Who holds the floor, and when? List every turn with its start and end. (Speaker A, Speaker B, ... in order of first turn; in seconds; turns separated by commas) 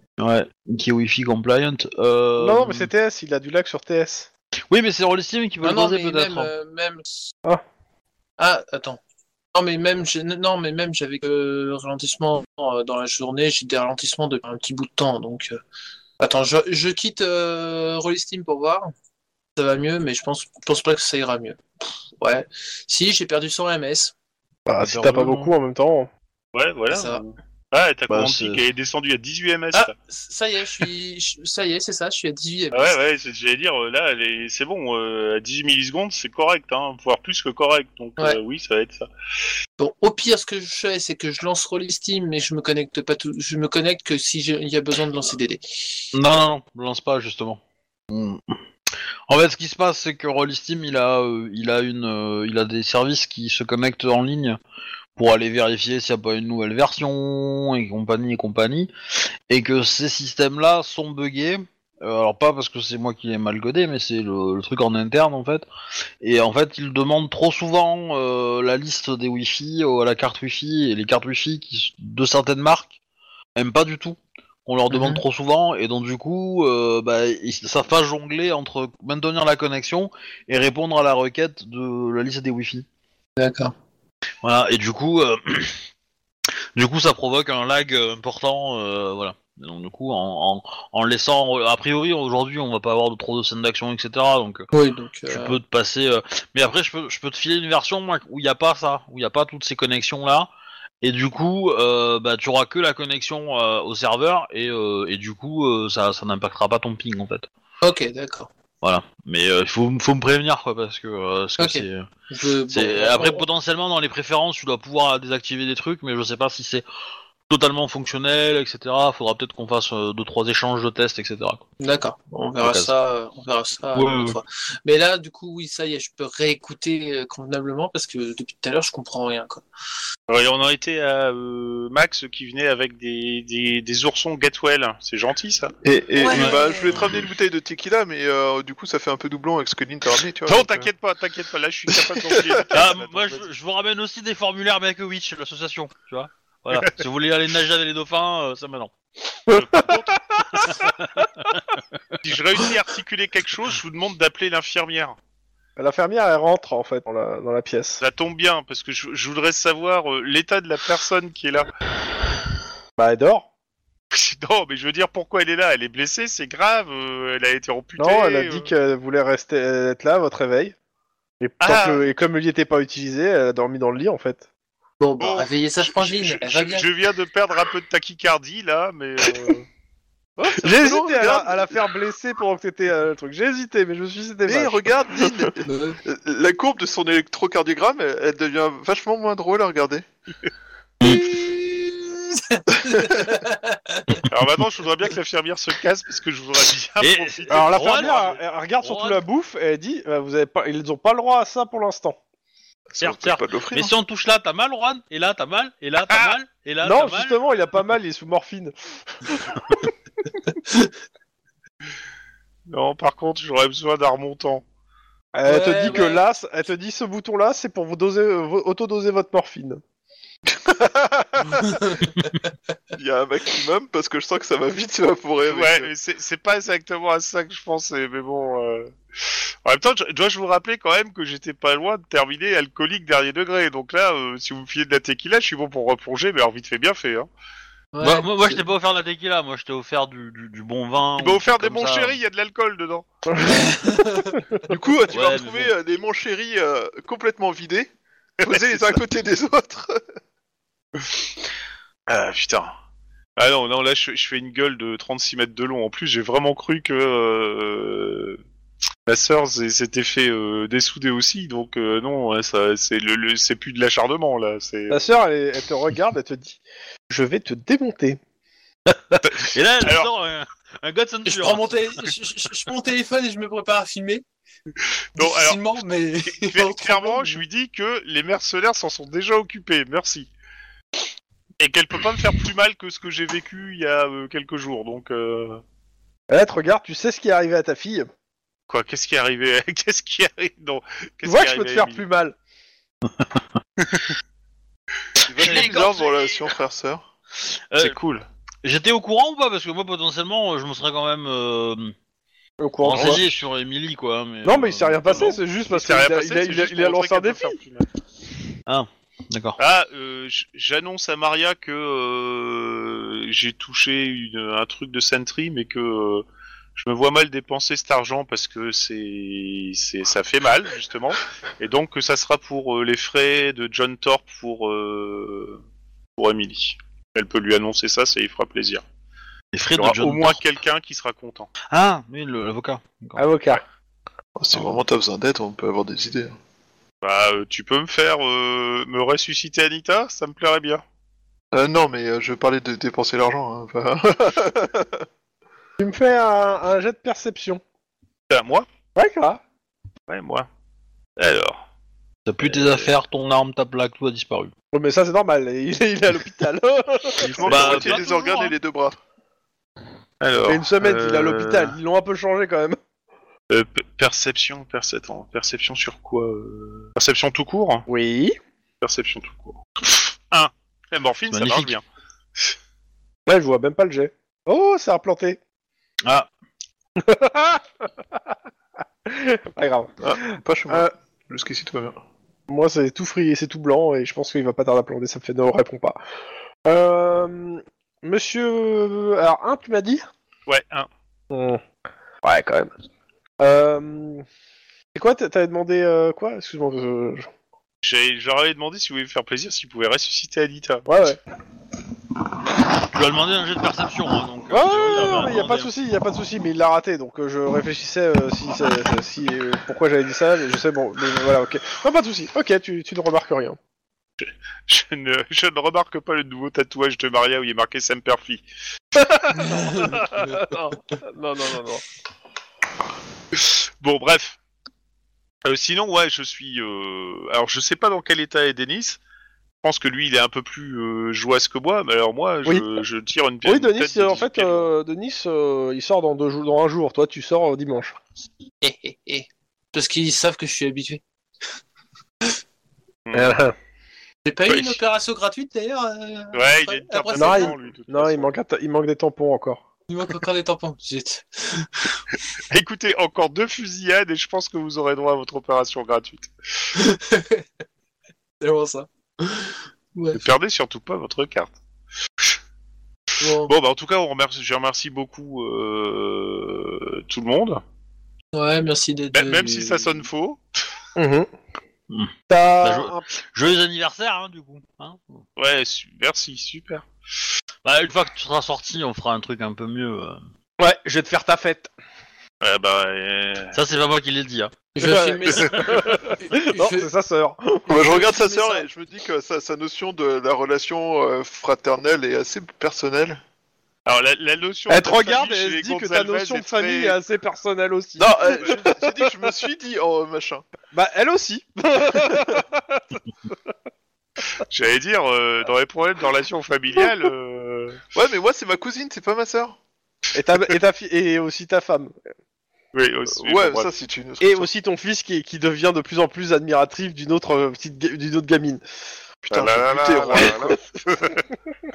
Speaker A: 0.2-2.9, Speaker B: 2.4-4.3, Speaker A: 4.7-6.5, Speaker C: 5.6-7.3, Speaker C: 8.4-9.0, Speaker C: 9.5-15.6, Speaker C: 16.2-18.9, Speaker C: 19.6-24.1, Speaker B: 24.7-26.1, Speaker A: 24.8-25.5, Speaker D: 26.5-29.9, Speaker C: 26.9-27.2, Speaker A: 28.1-28.6, Speaker C: 29.7-33.0, Speaker D: 32.7-39.1, Speaker C: 39.8-46.1, Speaker A: 46.1-48.5, Speaker A: 49.3-54.6, Speaker A: 55.2-58.9, Speaker A: 59.5-65.7, Speaker A: 66.2-73.0, Speaker A: 73.6-82.9, Speaker C: 74.9-75.2, Speaker C: 83.4-83.7, Speaker A: 84.4-85.8, Speaker A: 86.8-94.7, Speaker C: 94.7-95.6, Speaker A: 95.3-100.5, Speaker A: 101.0-107.5, Speaker C: 107.8-108.5, Speaker A: 108.8-112.1, Speaker C: 111.6-113.5, Speaker A: 112.7-116.8, Speaker A: 117.5-121.6, Speaker C: 121.8-129.7, Speaker A: 122.6-122.9, Speaker A: 124.0-124.4, Speaker D: 130.3-135.7, Speaker E: 135.8-140.9, Speaker C: 136.2-136.8, Speaker A: 136.3-136.6, Speaker D: 140.4-143.4, Speaker E: 141.9-142.6, Speaker A: 142.7-148.9, Speaker B: 149.5-150.1, Speaker D: 149.5-150.8, Speaker A: 150.5-151.8, Speaker D: 152.2-155.2, Speaker B: 155.8-158.0, Speaker D: 158.0-161.7, Speaker B: 163.0-163.5, Speaker D: 164.1-168.7, Speaker B: 168.0-170.8, Speaker B: 171.4-174.4, Speaker D: 171.6-172.0, Speaker C: 175.0-176.9, Speaker D: 175.2-179.7, Speaker B: 180.4-185.3, Speaker E: 180.5-181.9, Speaker E: 184.5-190.1, Speaker C: 185.7-186.0, Speaker A: 191.0-191.3, Speaker C: 191.0-194.3, Speaker D: 194.3-198.3, Speaker A: 197.0-199.2, Speaker B: 197.5-202.2, Speaker E: 202.9-203.9, Speaker A: 203.0-207.4, Speaker D: 206.1-206.3, Speaker B: 206.8-209.6, Speaker C: 210.5-210.9, Speaker D: 212.7-214.6, Speaker B: 215.3-219.8, Speaker C: 215.5-216.2, Speaker B: 220.9-221.5, Speaker C: 221.4-222.5, Speaker E: 223.0-225.9, Speaker D: 225.4-237.3, Speaker C: 237.9-238.6, Speaker A: 238.0-242.2, Speaker D: 241.2-243.1, Speaker B: 243.3-243.7, Speaker C: 243.4-244.4, Speaker E: 244.7-247.9, Speaker A: 245.1-245.7, Speaker D: 248.4-249.0, Speaker E: 248.4-250.0, Speaker D: 252.1-252.7, Speaker D: 253.4-258.4, Speaker D: 259.1-265.0, Speaker B: 264.9-268.2, Speaker B: 268.9-269.2, Speaker D: 269.2-270.1, Speaker A: 269.5-271.9, Speaker C: 271.3-274.2, Speaker D: 275.2-275.6, Speaker C: 275.2-277.4, Speaker D: 276.3-280.3, Speaker D: 281.6-285.6, Speaker B: 286.3-288.1, Speaker D: 288.7-292.0, Speaker B: 291.2-292.4, Speaker E: 295.2-297.1, Speaker A: 295.3-296.2, Speaker D: 295.4-296.4, Speaker D: 297.8-298.3, Speaker A: 298.6-301.9, Speaker B: 302.6-303.2, Speaker A: 302.8-305.4, Speaker B: 304.4-307.6, Speaker D: 305.1-307.9, Speaker A: 308.7-309.6, Speaker D: 309.6-316.2, Speaker D: 316.8-325.6, Speaker D: 326.2-328.8, Speaker A: 329.5-330.4, Speaker D: 329.8-331.5, Speaker A: 331.7-333.2, Speaker B: 333.2-333.6, Speaker E: 334.4-336.4, Speaker D: 337.0-340.8, Speaker E: 341.5-345.0, Speaker B: 345.8-347.6, Speaker D: 348.3-348.7, Speaker B: 349.0-349.4, Speaker D: 350.1-350.5, Speaker D: 351.2-351.6, Speaker A: 352.3-354.5, Speaker D: 352.5-352.9, Speaker B: 354.7-357.3, Speaker D: 357.2-358.4, Speaker E: 357.2-359.0, Speaker A: 357.5-358.5, Speaker D: 360.2-361.8, Speaker B: 360.4-362.8, Speaker D: 363.5-367.9, Speaker B: 367.9-368.4, Speaker D: 368.8-371.8, Speaker A: 371.3-371.8, Speaker B: 373.3-375.4, Speaker B: 377.0-377.9, Speaker B: 379.1-380.1, Speaker E: 380.0-382.0, Speaker B: 382.5-386.0, Speaker B: 386.6-390.1, Speaker D: 390.5-390.9, Speaker B: 391.3-391.6, Speaker B: 392.2-392.7, Speaker B: 393.4-394.2, Speaker B: 394.9-397.3, Speaker D: 397.8-400.9, Speaker B: 400.9-401.2, Speaker A: 402.8-405.7, Speaker B: 404.5-413.6, Speaker D: 414.2-418.4, Speaker B: 419.3-421.8, Speaker C: 419.3-420.4, Speaker D: 423.3-424.4, Speaker D: 425.4-429.0, Speaker D: 429.6-434.7, Speaker B: 432.4-432.8, Speaker B: 433.4-438.0, Speaker C: 438.6-441.0, Speaker D: 443.1-443.4, Speaker B: 443.1-443.6, Speaker C: 444.2-447.6, Speaker D: 444.5-444.8, Speaker D: 446.3-448.3, Speaker B: 447.1-449.6, Speaker C: 449.9-452.0, Speaker D: 452.5-456.3, Speaker C: 456.7-457.5, Speaker C: 458.4-460.3, Speaker D: 460.1-461.5, Speaker C: 463.2-463.5, Speaker D: 463.5-467.6, Speaker C: 468.3-470.0, Speaker D: 469.1-470.4, Speaker B: 471.0-471.3, Speaker A: 471.9-475.2, Speaker B: 472.3-473.1, Speaker D: 475.4-476.9, Speaker A: 477.6-480.2, Speaker B: 480.6-481.7, Speaker D: 482.4-483.6, Speaker A: 483.5-484.6, Speaker C: 484.8-486.9, Speaker B: 484.8-487.8, Speaker E: 487.7-493.2, Speaker C: 487.7-488.6, Speaker D: 493.9-497.0, Speaker B: 494.7-499.3, Speaker E: 498.0-500.4, Speaker B: 500.7-503.3, Speaker D: 504.5-507.8, Speaker E: 507.9-509.6, Speaker B: 510.1-511.9, Speaker D: 512.7-513.7, Speaker E: 513.2-514.5, Speaker B: 514.2-518.6, Speaker E: 519.3-520.6, Speaker D: 519.3-521.2